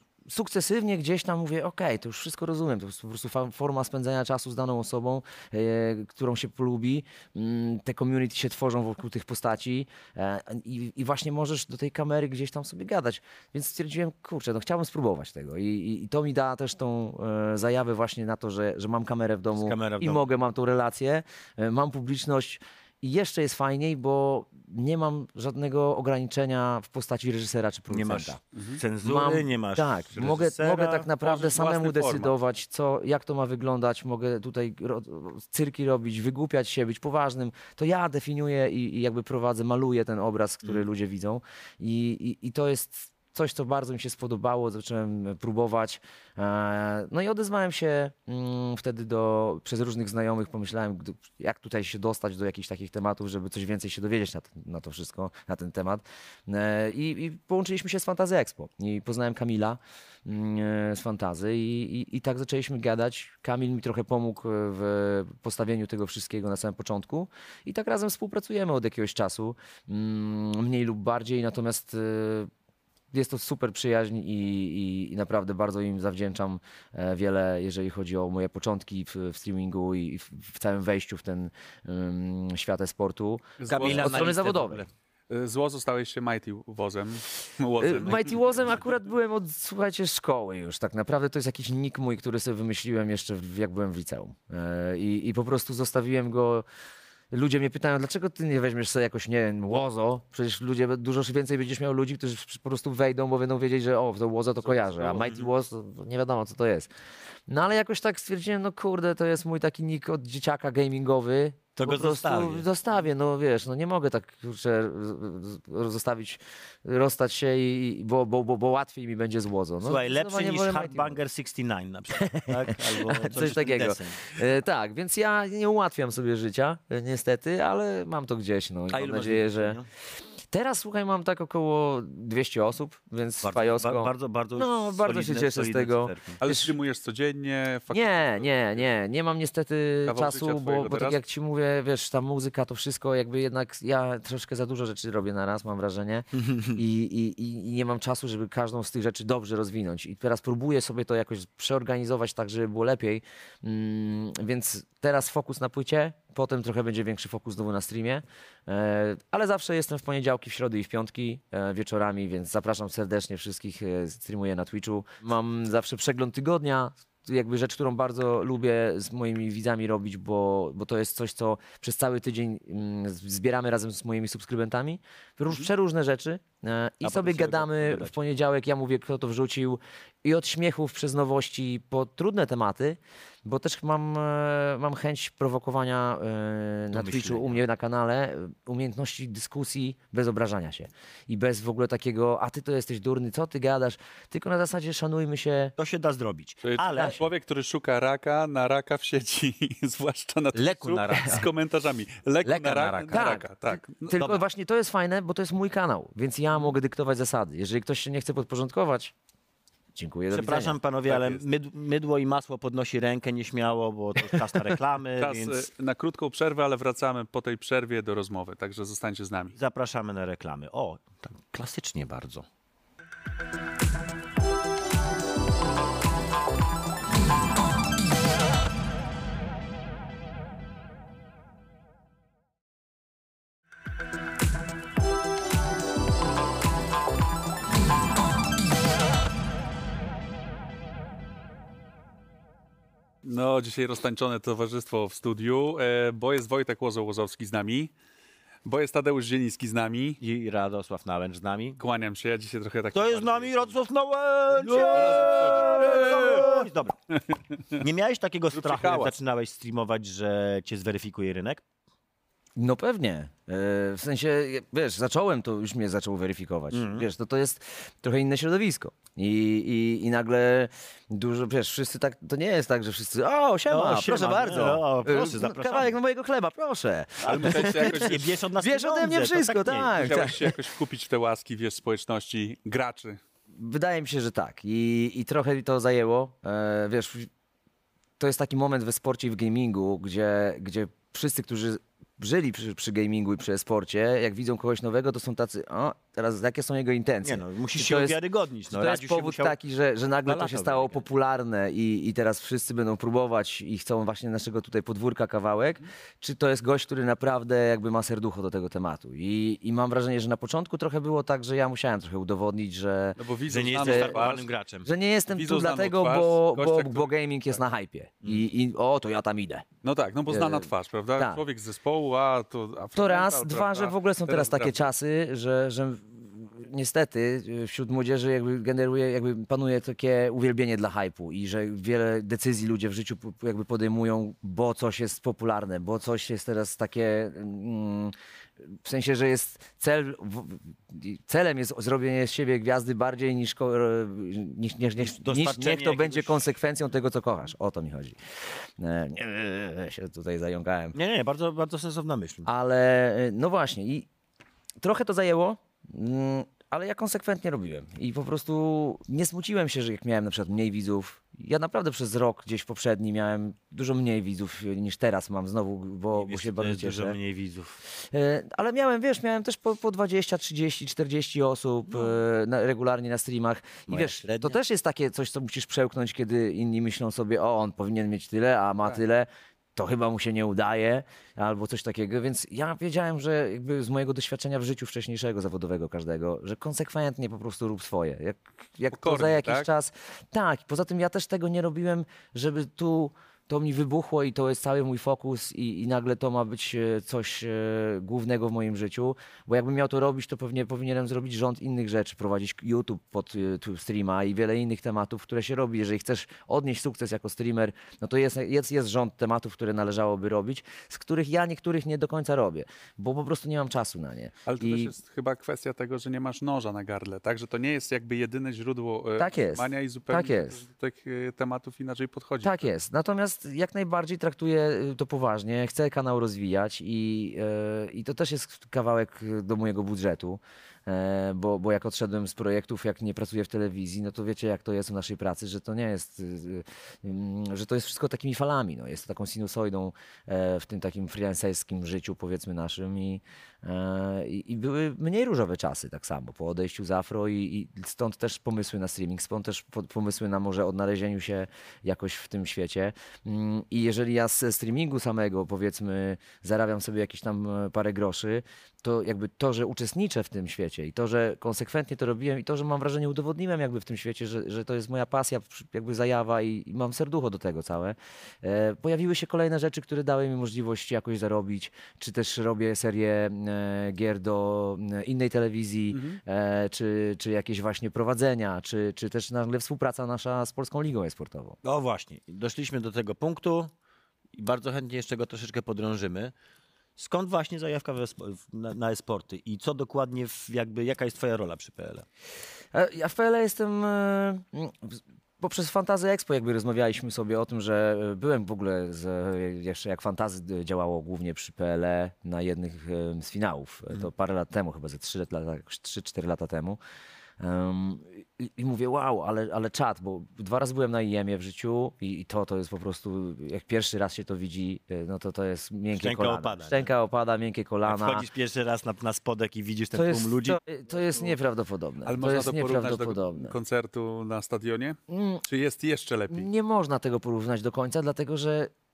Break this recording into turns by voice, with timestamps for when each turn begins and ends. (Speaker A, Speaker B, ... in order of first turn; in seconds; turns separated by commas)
Speaker A: 0.3-28.4, Speaker B: 19.5-20.2, Speaker B: 27.9-31.1, Speaker C: 28.5-28.8, Speaker A: 29.0-72.5, Speaker C: 31.2-32.3, Speaker A: 73.1-84.8, Speaker C: 83.6-84.3, Speaker B: 83.7-84.9, Speaker C: 85.3-88.4, Speaker A: 87.8-96.6, Speaker A: 97.3-106.9, Speaker B: 104.8-105.5, Speaker A: 107.5-121.2, Speaker B: 111.8-112.7, Speaker B: 119.8-124.4, Speaker A: 122.2-129.8, Speaker B: 128.9-129.9, Speaker A: 130.5-136.7, Speaker B: 133.4-136.4, Speaker C: 136.4-138.8, Speaker A: 137.9-195.7, Speaker C: 140.1-141.2, Speaker B: 146.3-146.8, Speaker B: 177.0-178.2, Speaker B: 186.9-187.6, Speaker B: 195.8-197.2, Speaker C: 196.6-204.1, Speaker B: 200.5-201.5, Speaker B: 202.4-203.3, Speaker A: 203.1-209.1, Speaker B: 204.2-204.4, Speaker A: 209.9-210.8, Speaker B: 210.3-215.6, Speaker C: 211.1-211.4, Speaker C: 215.2-219.5, Speaker B: 219.5-222.5, Speaker C: 243.2-247.9, Speaker C: 248.7-250.2, Speaker B: 250.2-251.8, Speaker C: 251.8-253.8, Speaker B: 252.9-257.0, Speaker C: 254.5-256.6, Speaker B: 257.8-261.6, Speaker C: 258.5-259.1, Speaker A: 262.6-280.6, Speaker B: 266.7-267.1, Speaker B: 273.7-275.9, Speaker C: 277.2-278.2, Speaker B: 277.2-280.3, Speaker C: 279.9-283.2, Speaker A: 283.5-287.3, Speaker A: 288.2-298.2, Speaker B: 297.2-299.6, Speaker A: 298.7-313.2, Speaker B: 300.2-301.0, Speaker C: 313.2-314.5, Speaker B: 313.5-314.9, Speaker A: 313.7-314.3, Speaker A: 314.8-319.6, Speaker C: 315.3-317.1, Speaker C: 319.8-324.9, Speaker A: 320.3-321.4, Speaker A: 322.9-350.9, Speaker B: 345.0-346.4, Speaker B: 350.9-352.5, Speaker A: 352.4-354.1, Speaker A: 354.8-367.2, Speaker B: 366.1-367.8, Speaker A: 367.9-414.9, Speaker B: 373.9-374.6, Speaker C: 388.9-389.7, Speaker C: 414.5-422.7, Speaker A: 419.2-420.6, Speaker A: 422.4-481.6, Speaker C: 475.9-476.2, Speaker B: 481.6-483.7, Speaker B: 484.4-486.3, Speaker B: 487.0-492.0, Speaker A: 492.7-506.8, Speaker A: 507.4-518.2, Speaker B: 515.9-516.9, Speaker B: 517.8-520.6, Speaker A: 519.9-523.5, Speaker C: 522.0-526.5, Speaker A: 525.1-525.4, Speaker A: 526.3-528.7